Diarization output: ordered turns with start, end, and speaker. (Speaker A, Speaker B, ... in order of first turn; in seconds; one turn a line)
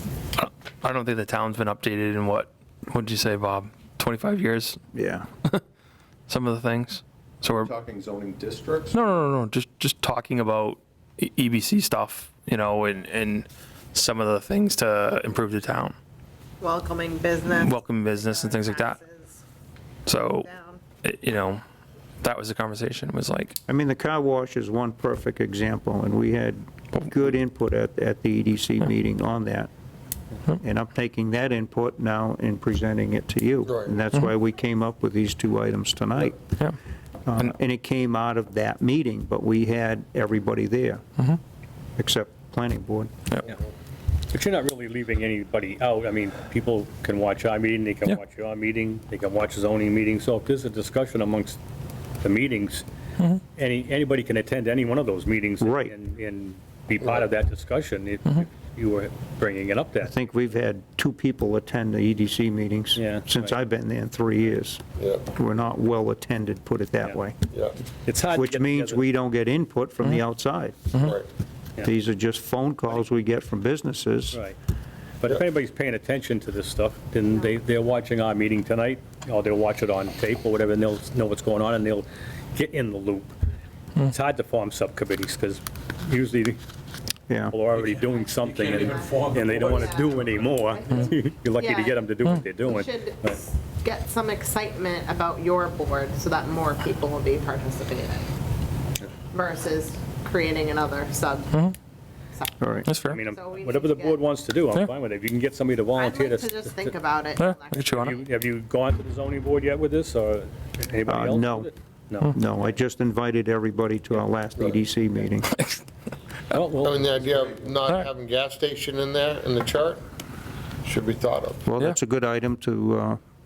Speaker A: 0.4-4.8
Speaker B: 4.9-5.3
Speaker A: 6.3-7.7
Speaker C: 7.5-9.0
Speaker A: 8.9-16.0
Speaker D: 16.6-19.4
Speaker A: 17.5-19.0
Speaker A: 20.1-20.5
Speaker D: 20.1-20.8
Speaker A: 21.0-21.6
Speaker A: 22.2-23.6
Speaker B: 23.7-29.7
Speaker B: 30.5-36.4
Speaker E: 33.7-34.0
Speaker B: 37.3-41.0
Speaker B: 42.0-43.1
Speaker F: 44.3-51.6
Speaker F: 52.2-52.8
Speaker F: 53.6-60.1
Speaker B: 55.6-55.9
Speaker B: 60.0-67.4
Speaker F: 63.0-63.5
Speaker E: 65.0-65.2
Speaker E: 67.5-67.8
Speaker F: 68.0-69.0
Speaker B: 68.3-71.0
Speaker E: 71.0-71.3
Speaker B: 71.8-74.4
Speaker F: 74.3-74.6
Speaker F: 75.2-83.3
Speaker F: 84.0-86.6
Speaker B: 87.3-87.6
Speaker F: 87.5-93.4
Speaker C: 87.8-90.5
Speaker D: 88.4-92.0
Speaker D: 92.6-98.2
Speaker D: 99.3-101.6
Speaker D: 102.3-104.2
Speaker B: 102.6-102.9
Speaker A: 102.9-103.2
Speaker F: 103.1-107.0
Speaker D: 106.0-108.2
Speaker A: 107.4-108.2
Speaker F: 107.9-112.4
Speaker B: 111.1-111.7
Speaker B: 112.3-115.5
Speaker F: 116.5-117.4
Speaker E: 116.8-120.0
Speaker E: 120.8-121.7
Speaker B: 121.7-123.2